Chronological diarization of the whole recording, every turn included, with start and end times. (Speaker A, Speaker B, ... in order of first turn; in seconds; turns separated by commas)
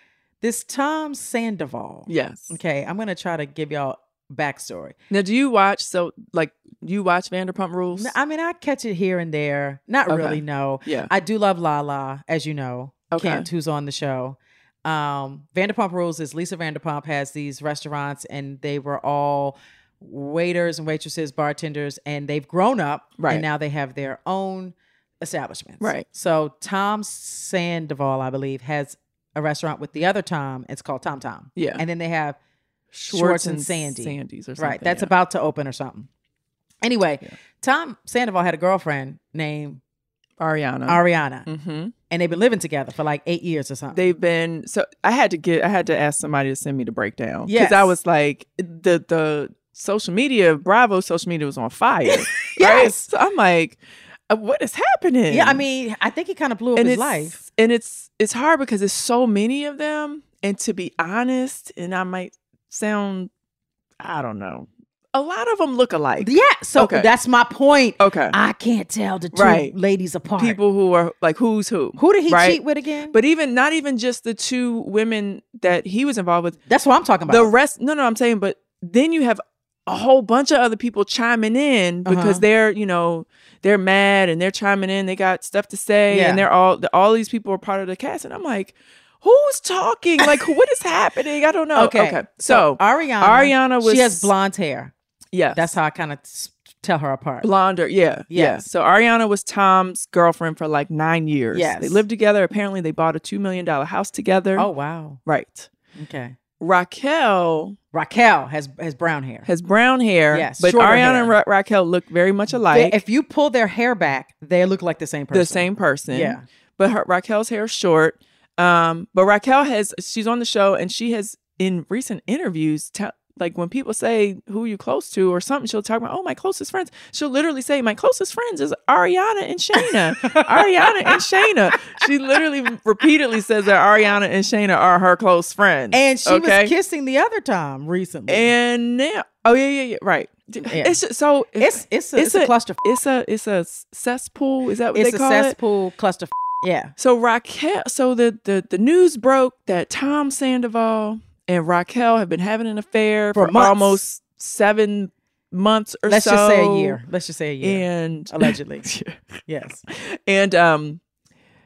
Speaker A: 0.4-5.0, Speaker B: 2.1-2.6, Speaker B: 5.1-8.2, Speaker A: 7.9-32.4, Speaker B: 10.1-11.1, Speaker B: 13.1-13.5, Speaker B: 23.2-23.4, Speaker B: 25.8-26.1, Speaker B: 31.6-31.8, Speaker B: 32.9-35.1, Speaker A: 33.1-36.1, Speaker A: 36.8-39.8, Speaker B: 40.4-41.9, Speaker A: 40.9-41.5, Speaker A: 42.1-44.0, Speaker B: 43.9-53.8, Speaker A: 47.5-48.0, Speaker A: 52.1-53.1, Speaker B: 54.3-55.6, Speaker A: 55.3-57.4, Speaker B: 56.8-63.3, Speaker B: 64.0-67.1, Speaker A: 66.2-70.6, Speaker B: 68.0-68.4, Speaker B: 69.3-69.7, Speaker B: 70.4-72.6, Speaker A: 72.0-73.2, Speaker B: 73.1-76.6, Speaker A: 76.7-77.5, Speaker B: 77.3-94.3, Speaker A: 82.1-82.4, Speaker A: 86.1-86.4, Speaker A: 91.8-94.9, Speaker B: 95.3-95.7, Speaker A: 95.5-97.5, Speaker B: 97.4-104.7, Speaker A: 98.3-98.7, Speaker A: 101.5-102.0, Speaker A: 104.6-105.2, Speaker B: 105.2-105.7, Speaker A: 106.0-106.4, Speaker B: 106.6-107.8, Speaker A: 107.9-109.5, Speaker B: 109.5-113.0, Speaker A: 110.3-111.3, Speaker A: 112.6-116.4, Speaker B: 115.3-136.7, Speaker A: 130.3-131.2, Speaker A: 135.9-138.5, Speaker B: 138.3-145.6, Speaker A: 140.7-141.0, Speaker A: 141.6-142.8, Speaker A: 144.9-146.9, Speaker B: 147.0-157.0, Speaker A: 153.3-154.0, Speaker A: 156.1-158.9, Speaker B: 157.6-159.2, Speaker A: 159.5-159.8, Speaker B: 159.9-161.0